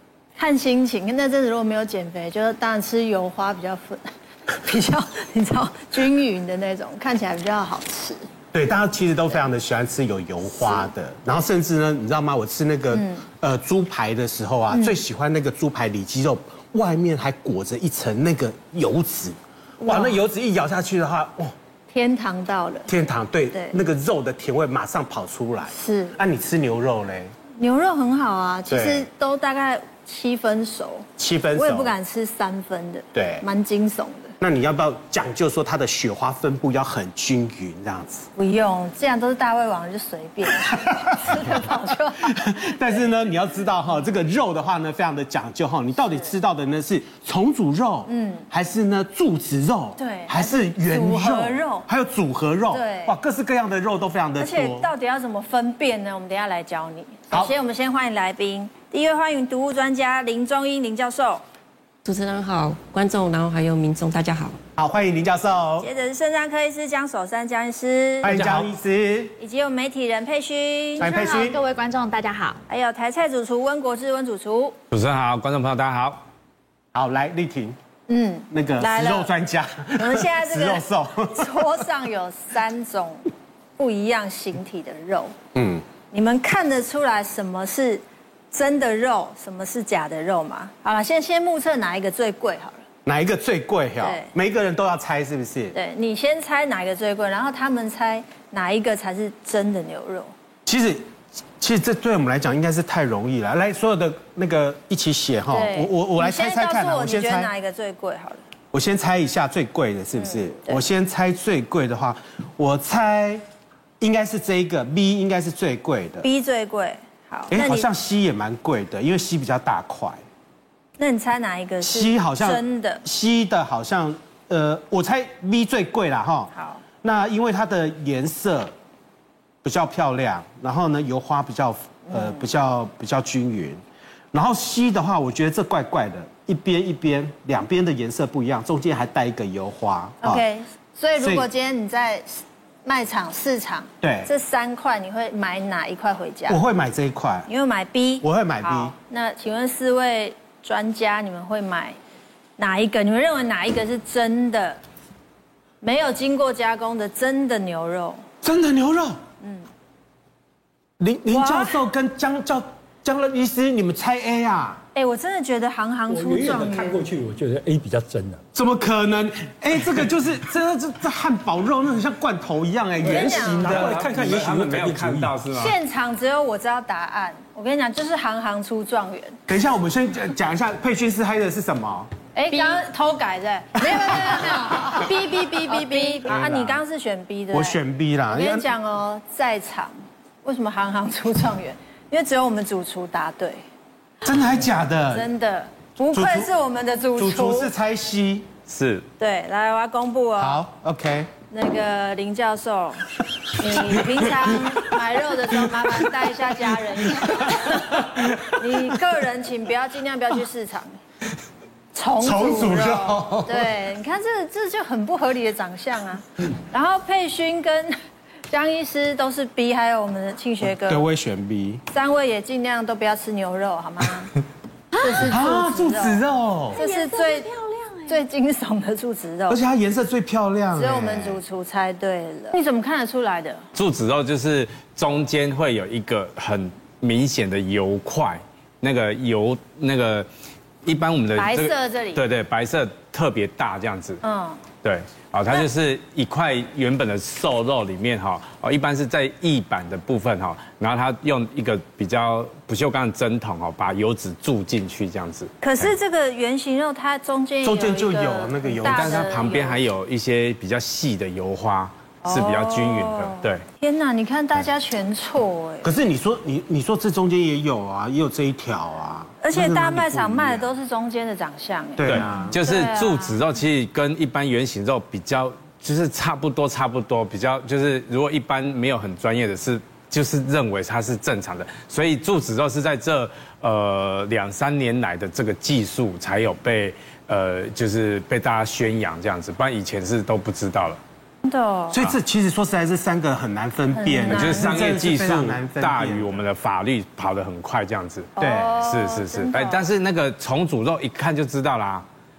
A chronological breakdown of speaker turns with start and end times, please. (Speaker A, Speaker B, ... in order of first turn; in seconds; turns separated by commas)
Speaker A: 0.4-8.2, Speaker B: 8.5-21.5, Speaker A: 12.9-13.2, Speaker A: 14.7-15.0, Speaker A: 19.8-20.1, Speaker A: 21.9-22.9, Speaker B: 22.9-27.3, Speaker A: 25.7-26.2, Speaker A: 27.6-34.4, Speaker B: 28.7-29.1, Speaker B: 31.2-31.9, Speaker B: 33.1-33.5, Speaker B: 34.4-38.3, Speaker A: 38.4-42.4, Speaker B: 40.7-41.6, Speaker B: 42.2-54.9, Speaker A: 48.1-48.5, Speaker A: 50.0-51.9, Speaker A: 52.7-53.1, Speaker A: 54.4-61.4, Speaker C: 62.0-64.6, Speaker B: 64.8-65.9, Speaker A: 65.8-68.3, Speaker B: 68.2-69.3, Speaker D: 68.2-68.7, Speaker A: 69.4-71.1, Speaker E: 71.0-72.6, Speaker B: 71.0-71.6, Speaker A: 72.7-74.8, Speaker D: 74.9-76.2, Speaker B: 76.9-77.8, Speaker A: 78.1-79.3, Speaker B: 78.5-81.6, Speaker A: 80.0-83.2, Speaker A: 83.8-85.3, Speaker B: 85.5-85.8, Speaker A: 86.1-92.8, Speaker B: 93.1-95.8, Speaker A: 94.0-94.3, Speaker A: 95.7-100.3, Speaker B: 100.7-107.5, Speaker A: 105.5-108.4, Speaker B: 108.7-113.4, Speaker A: 110.2-110.8, Speaker B: 114.0-116.3, Speaker A: 116.2-117.9, Speaker B: 117.5-120.2, Speaker A: 121.0-123.0, Speaker B: 121.8-128.7, Speaker A: 126.5-126.8, Speaker B: 129.6-133.8, Speaker A: 132.1-132.4, Speaker B: 134.3-140.4, Speaker A: 140.2-146.6, Speaker B: 141.2-141.5, Speaker B: 144.0-144.3, Speaker B: 146.5-147.5, Speaker A: 147.5-152.0, Speaker B: 148.2-148.9, Speaker A: 152.6-154.8, Speaker A: 155.8-158.2, Speaker B: 158.4-159.2, Speaker B: 161.0-164.8, Speaker A: 161.3-161.8, Speaker A: 164.9-167.1, Speaker F: 166.1-168.4, Speaker B: 168.6-174.1, Speaker A: 173.0-173.7, Speaker F: 173.0-175.3, Speaker D: 173.6-175.8, Speaker A: 175.5-179.4, Speaker B: 179.5-182.1, Speaker A: 182.3-187.8, Speaker E: 182.5-182.8, Speaker B: 183.8-185.0, Speaker E: 185.0-186.4, Speaker B: 186.3-186.8, Speaker B: 187.5-188.7, Speaker A: 188.3-193.6, Speaker B: 194.2-195.3, Speaker A: 195.1-197.7, Speaker B: 196.1-196.5, Speaker B: 197.2-198.5, Speaker D: 198.7-199.1, Speaker A: 199.2-200.6, Speaker B: 200.4-201.3, Speaker A: 201.5-210.9, Speaker A: 211.9-218.0, Speaker B: 212.2-213.7, Speaker A: 218.5-221.0, Speaker B: 220.6-221.8, Speaker A: 221.9-224.3, Speaker E: 224.9-225.2, Speaker A: 225.0-226.2, Speaker B: 225.2-226.8, Speaker E: 226.7-228.2, Speaker A: 226.7-227.5, Speaker A: 228.1-229.6, Speaker B: 229.5-231.4, Speaker A: 230.7-233.6, Speaker D: 233.8-240.3, Speaker D: 240.8-244.2, Speaker A: 241.4-242.2, Speaker A: 244.2-244.6, Speaker D: 244.8-255.9, Speaker A: 255.6-259.8, Speaker B: 257.6-259.4, Speaker D: 258.8-263.6, Speaker A: 262.2-265.9, Speaker B: 265.8-270.7, Speaker A: 269.4-273.4, Speaker B: 272.0-272.6, Speaker D: 272.1-291.0, Speaker A: 291.4-292.0, Speaker B: 291.9-296.4, Speaker A: 293.9-295.1, Speaker D: 294.2-302.1, Speaker A: 298.4-299.8, Speaker B: 298.4-298.8